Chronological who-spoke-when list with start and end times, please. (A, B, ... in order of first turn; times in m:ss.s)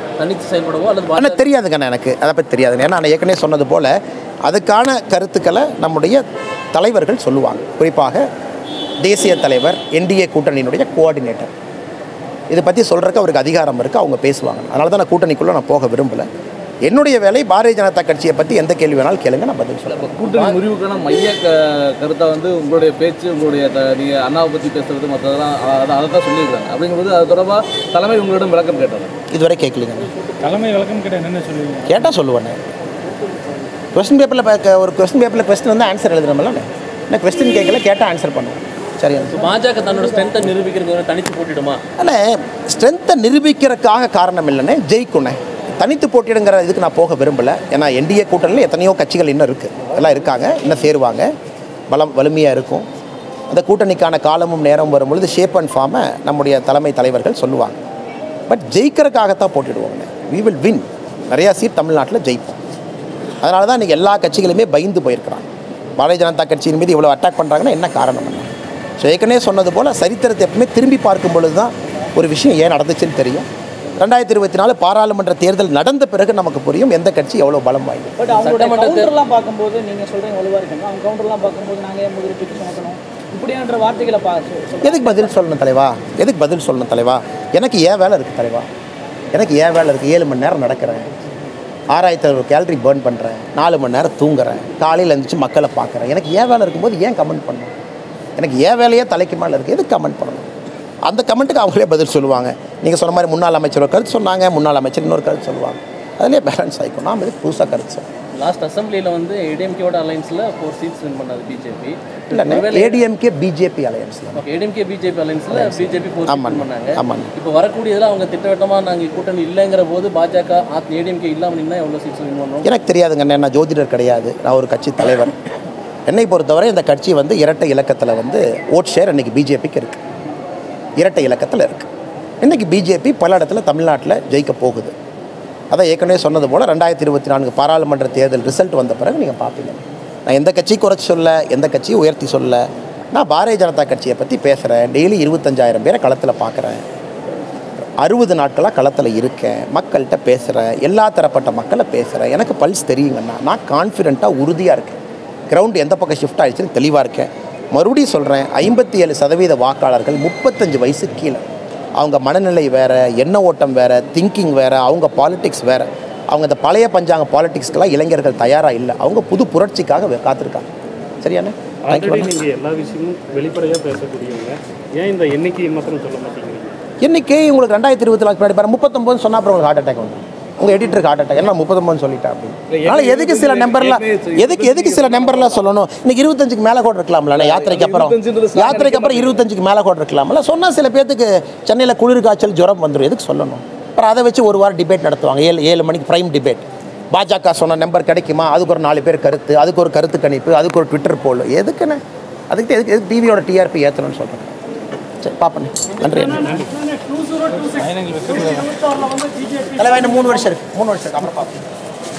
0:00.2-0:01.4 A
0:01.2-0:06.2 B
0:06.7-0:08.2 B
0:09.0-0:11.5 B
0:12.5-0:16.3 B
0:16.8-0:20.1 B
0:20.2-0:29.1 C
0:20.2-0:20.6 A
0:29.3-0:30.1 B
0:30.4-0:32.1 D
0:31.9-0:32.6 B
0:34.0-0:39.5 B
0:39.3-0:41.8 A
0:42.0-0:51.3 B
0:51.9-0:52.9 B
0:53.5-0:57.8 B
0:58.5-1:02.6 B
1:03.4-1:18.2 B
1:18.2-1:25.3 E
1:18.3-1:19.1 A
1:24.8-1:28.7 B
1:29.3-1:31.1 B
1:31.9-1:37.7 B
1:38.4-1:40.5 B
1:41.1-1:48.1 B
1:48.4-1:53.0 A
1:52.3-1:54.4 B
1:54.4-2:02.7 A
1:55.5-1:57.3 B
2:02.6-2:05.4 B
2:06.1-2:10.0 B
2:11.0-2:11.9 B
2:12.4-2:14.9 B
2:15.7-2:26.8 B
2:28.0-2:35.0 B
2:35.5-2:41.4 B
2:42.0-2:50.7 B
2:51.2-2:52.4 B
2:51.9-2:56.8 D
2:57.0-3:24.5 B
3:02.7-3:05.6 C
3:07.3-3:09.4 C
3:25.2-3:26.6 B
3:26.0-3:30.5 D
3:29.8-3:31.6 B